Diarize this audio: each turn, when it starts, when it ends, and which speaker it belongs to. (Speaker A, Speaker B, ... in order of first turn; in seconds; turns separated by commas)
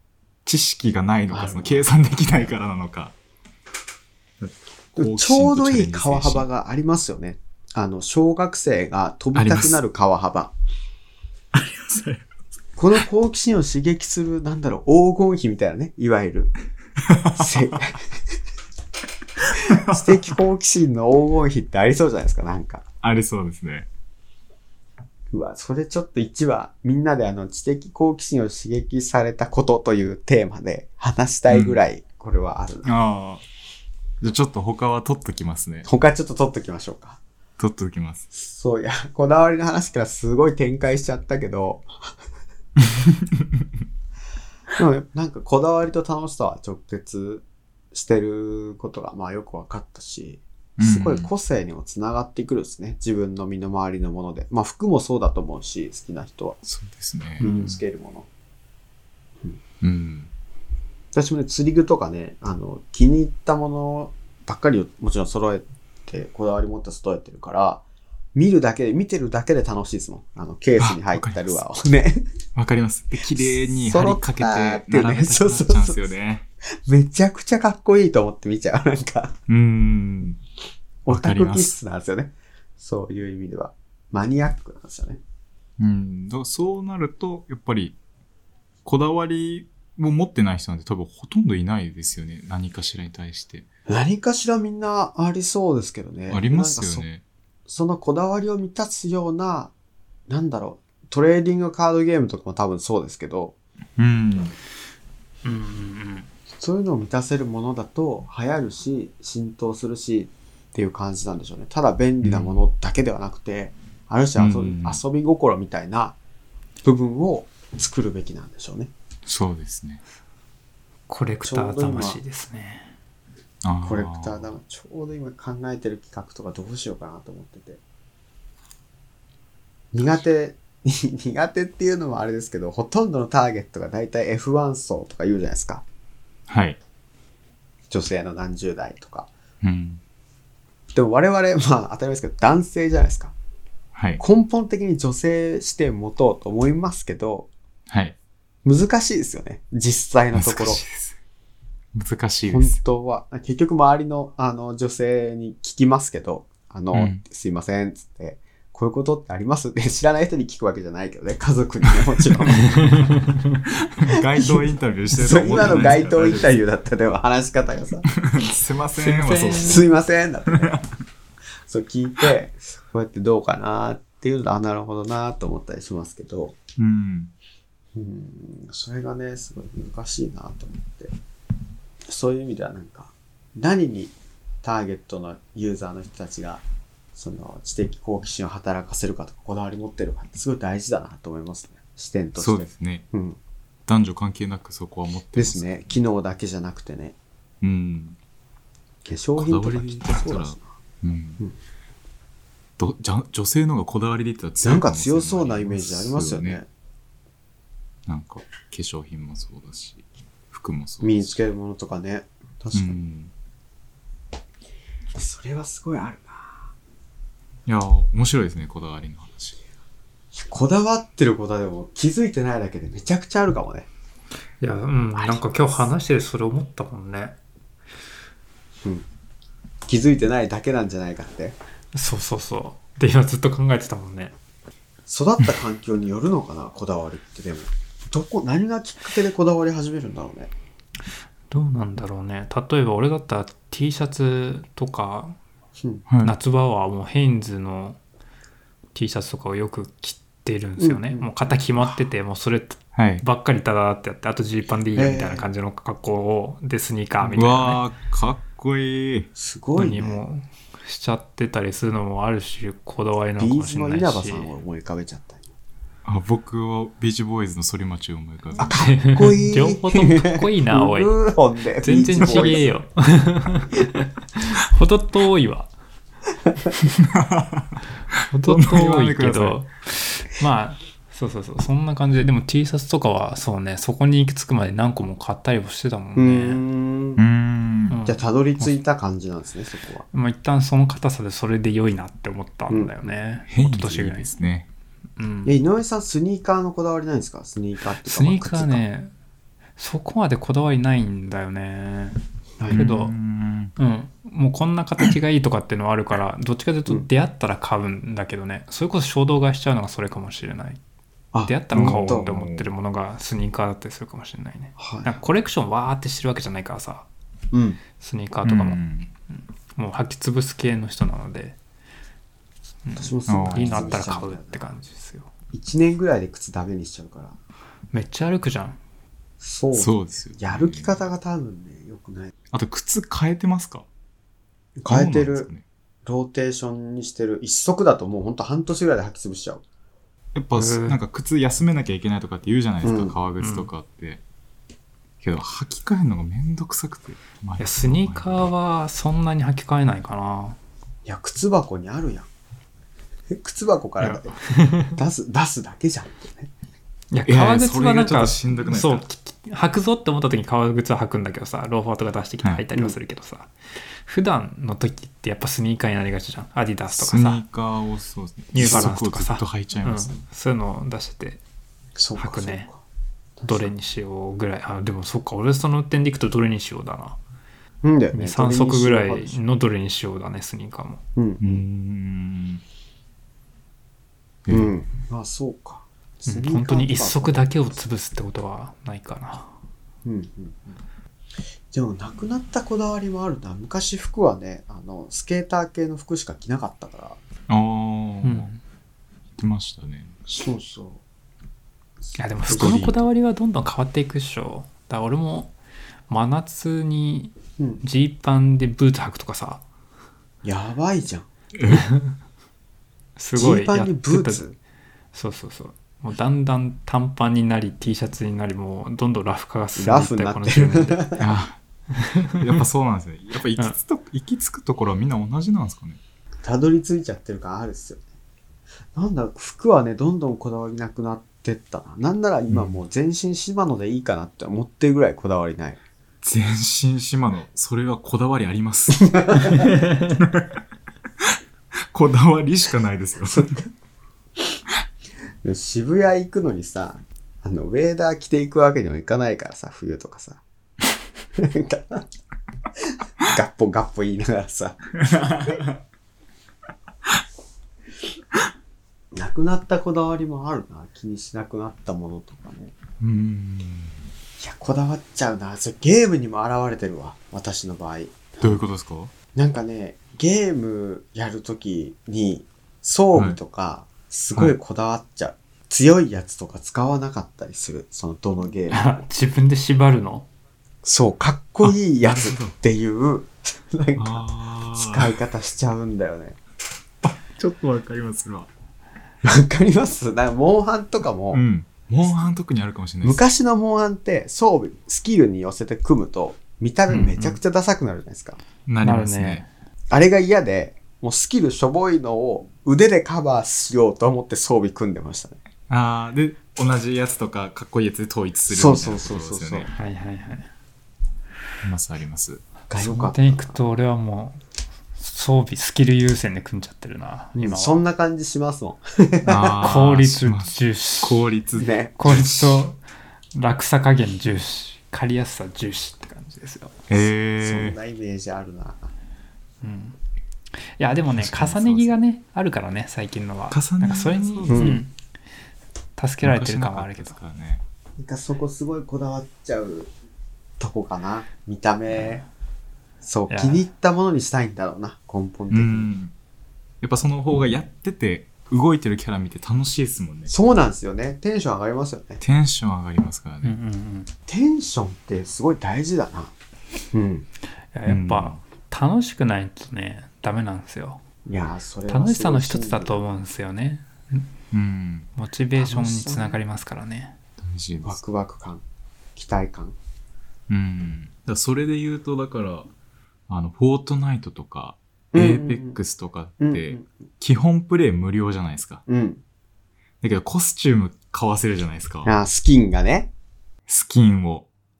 Speaker A: 0.5-3.1, Speaker B: 1.3-1.9, Speaker A: 4.4-6.5, Speaker B: 5.0-10.5, Speaker A: 9.4-9.8, Speaker A: 11.5-12.2, Speaker B: 12.8-16.5, Speaker A: 17.1-17.5, Speaker B: 17.4-18.0, Speaker A: 19.4-20.3, Speaker B: 19.7-22.8, Speaker A: 23.0-23.9, Speaker B: 25.3-32.9, Speaker A: 31.5-31.9, Speaker A: 32.8-33.4, Speaker A: 34.2-35.9, Speaker B: 35.8-37.2, Speaker A: 37.6-38.2, Speaker B: 38.3-41.9, Speaker B: 44.8-56.6, Speaker A: 50.8-51.3, Speaker A: 56.6-57.8, Speaker B: 57.4-58.3, Speaker A: 59.8-60.3, Speaker B: 61.1-67.8, Speaker B: 68.3-72.2, Speaker A: 70.8-71.6, Speaker A: 72.5-76.4, Speaker B: 73.4-76.1, Speaker B: 76.9-79.3, Speaker A: 79.5-80.4, Speaker B: 81.0-85.2, Speaker A: 81.1-81.7, Speaker A: 85.8-88.0, Speaker A: 88.8-93.7, Speaker B: 93.9-97.1, Speaker A: 96.3-97.2, Speaker B: 97.7-99.7, Speaker B: 100.3-103.5, Speaker A: 104.0-104.5, Speaker C: 105.4-106.3, Speaker B: 106.6-116.2, Speaker A: 112.2-112.6, Speaker A: 114.4-115.0, Speaker B: 116.8-118.9, Speaker A: 119.2-120.0, Speaker C: 121.1-122.9, Speaker B: 121.4-122.2, Speaker A: 123.6-124.5, Speaker B: 123.8-127.8, Speaker B: 129.9-135.8, Speaker A: 136.5-136.8, Speaker B: 137.9-139.3, Speaker A: 139.6-140.0, Speaker B: 140.9-143.3, Speaker A: 143.9-144.2, Speaker B: 144.2-147.5, Speaker A: 147.9-148.1, Speaker B: 148.6-150.8, Speaker A: 150.3-151.2, Speaker A: 151.9-152.8, Speaker B: 152.5-163.0, Speaker A: 156.9-157.2, Speaker C: 162.8-163.2, Speaker A: 163.8-166.6, Speaker B: 165.1-168.1, Speaker A: 168.2-169.9, Speaker C: 169.0-169.9, Speaker B: 169.5-170.7, Speaker A: 170.5-170.8, Speaker B: 171.7-176.5, Speaker A: 176.8-177.3, Speaker B: 177.9-181.1, Speaker B: 182.1-186.6, Speaker B: 187.1-193.4, Speaker A: 192.4-193.0, Speaker A: 193.9-195.9, Speaker B: 195.3-197.2, Speaker A: 197.6-198.2, Speaker B: 199.0-200.6, Speaker A: 199.4-201.4, Speaker A: 202.8-206.6, Speaker B: 204.6-206.7, Speaker A: 208.1-211.4, Speaker B: 211.0-213.0, Speaker A: 212.7-213.3, Speaker B: 215.1-216.7, Speaker A: 217.7-219.6, Speaker B: 220.3-223.9, Speaker C: 224.6-227.4, Speaker B: 225.2-225.9, Speaker B: 229.9-231.5, Speaker C: 231.9-234.3, Speaker B: 235.1-240.5, Speaker C: 241.5-245.4, Speaker A: 246.1-246.3, Speaker C: 246.2-248.0, Speaker C: 248.9-257.8, Speaker B: 250.8-252.1, Speaker A: 252.9-253.2, Speaker B: 254.9-255.4, Speaker A: 257.3-259.3, Speaker B: 259.3-260.2, Speaker C: 259.8-264.5, Speaker B: 263.4-265.5, Speaker A: 266.0-268.8, Speaker C: 268.6-271.1, Speaker B: 268.6-272.7, Speaker C: 271.8-273.8, Speaker A: 272.1-272.5, Speaker C: 274.4-275.7, Speaker A: 277.1-277.7, Speaker C: 278.3-286.6, Speaker A: 278.4-279.6, Speaker B: 286.1-287.2, Speaker A: 287.2-288.0, Speaker C: 287.9-288.8, Speaker B: 288.1-290.0, Speaker C: 290.1-294.3, Speaker B: 292.7-292.9, Speaker A: 293.5-294.7, Speaker C: 295.2-295.5, Speaker B: 295.4-298.8, Speaker C: 298.0-299.1, Speaker C: 299.8-302.2, Speaker B: 302.6-302.8, Speaker A: 302.7-303.7, Speaker C: 302.7-303.1, Speaker C: 303.8-310.8, Speaker B: 311.3-312.3, Speaker C: 311.4-317.1, Speaker A: 311.7-312.7, Speaker B: 314.8-315.1, Speaker B: 317.5-317.8, Speaker C: 318.0-321.6, Speaker A: 318.4-319.1, Speaker C: 322.8-325.3, Speaker B: 322.9-324.8, Speaker A: 323.2-324.0, Speaker B: 325.5-327.4, Speaker C: 327.9-328.8, Speaker B: 329.4-332.3, Speaker A: 329.7-331.0, Speaker A: 332.5-333.9, Speaker B: 334.8-335.5, Speaker A: 334.9-335.6, Speaker B: 336.1-339.6, Speaker A: 340.3-344.2, Speaker C: 340.5-341.0, Speaker B: 342.8-343.1, Speaker C: 343.4-343.7, Speaker A: 345.2-348.5, Speaker C: 347.6-350.6, Speaker B: 351.0-352.3, Speaker B: 353.3-356.5, Speaker C: 354.0-355.0, Speaker C: 357.1-363.5, Speaker A: 357.2-359.0, Speaker C: 364.1-367.4, Speaker A: 366.9-370.2, Speaker C: 368.5-371.4, Speaker B: 368.6-368.9, Speaker B: 371.9-372.8, Speaker C: 372.1-372.7, Speaker B: 373.4-373.7, Speaker C: 373.5-377.2, Speaker B: 377.8-379.4, Speaker C: 378.1-381.0, Speaker B: 381.1-381.6, Speaker A: 381.4-382.6, Speaker A: 384.4-384.7, Speaker B: 384.5-387.8, Speaker C: 386.3-389.5, Speaker B: 390.0-390.8, Speaker B: 391.7-397.2, Speaker A: 397.5-398.5, Speaker C: 398.2-398.6, Speaker A: 399.4-400.1, Speaker B: 400.3-401.0, Speaker C: 402.1-405.5, Speaker B: 402.5-402.8, Speaker A: 402.5-403.1, Speaker C: 406.1-409.6, Speaker B: 407.6-407.8, Speaker B: 410.4-411.3, Speaker A: 411.6-411.9, Speaker C: 411.7-412.1, Speaker C: 413.1-414.5, Speaker B: 413.3-414.6, Speaker C: 415.1-421.1, Speaker B: 419.8-421.2, Speaker A: 421.2-421.6, Speaker C: 421.9-422.3, Speaker A: 422.4-426.0, Speaker B: 426.4-428.0, Speaker B: 428.9-435.8, Speaker A: 432.5-432.8, Speaker A: 436.2-440.5, Speaker B: 439.0-439.5, Speaker C: 439.6-440.1, Speaker A: 441.9-443.6, Speaker B: 443.2-443.7, Speaker B: 445.4-450.4, Speaker B: 451.4-452.0, Speaker B: 453.2-455.6, Speaker A: 455.0-455.8, Speaker B: 459.1-462.7, Speaker A: 463.0-464.1, Speaker B: 464.4-468.6, Speaker A: 468.4-469.1, Speaker B: 469.3-479.0, Speaker C: 478.7-480.3, Speaker B: 480.8-486.4, Speaker A: 481.6-482.5, Speaker A: 484.0-485.1, Speaker A: 487.0-488.5, Speaker B: 489.2-491.4, Speaker A: 491.3-493.2, Speaker B: 493.0-498.4, Speaker C: 496.9-497.4, Speaker A: 498.6-499.4, Speaker C: 498.8-499.5, Speaker B: 499.9-505.4, Speaker A: 505.7-509.7, Speaker B: 508.5-509.7, Speaker C: 509.7-510.5, Speaker A: 511.6-512.4, Speaker B: 512.7-513.6, Speaker C: 512.8-514.4, Speaker C: 515.0-517.8, Speaker B: 517.4-519.6, Speaker A: 519.2-522.6, Speaker C: 519.6-521.2, Speaker B: 521.6-522.5, Speaker C: 522.0-522.8, Speaker C: 523.3-526.8, Speaker A: 526.9-527.8, Speaker B: 527.4-528.9, Speaker C: 529.6-530.0, Speaker C: 530.8-534.9, Speaker A: 531.1-532.0, Speaker A: 533.5-534.8, Speaker B: 534.5-534.8, Speaker C: 536.0-537.1, Speaker A: 536.2-537.6, Speaker B: 538.0-539.9, Speaker B: 540.6-542.2, Speaker B: 543.0-545.9, Speaker C: 543.3-543.7, Speaker A: 545.5-546.1, Speaker A: 546.8-550.3, Speaker B: 550.3-552.2, Speaker A: 552.2-553.5, Speaker C: 553.4-554.1, Speaker B: 554.3-556.3, Speaker B: 556.9-557.3, Speaker C: 557.7-561.0, Speaker A: 557.9-558.4, Speaker B: 561.2-563.1, Speaker C: 561.9-564.3, Speaker A: 564.5-565.1, Speaker C: 565.1-567.1, Speaker B: 565.5-566.4, Speaker A: 567.4-568.0, Speaker B: 567.8-568.6, Speaker B: 569.1-569.8, Speaker A: 570.5-572.7, Speaker A: 573.3-578.8, Speaker B: 575.1-575.8, Speaker B: 576.4-576.9, Speaker B: 578.9-579.2, Speaker A: 580.0-582.1, Speaker B: 582.0-583.1, Speaker A: 583.7-584.5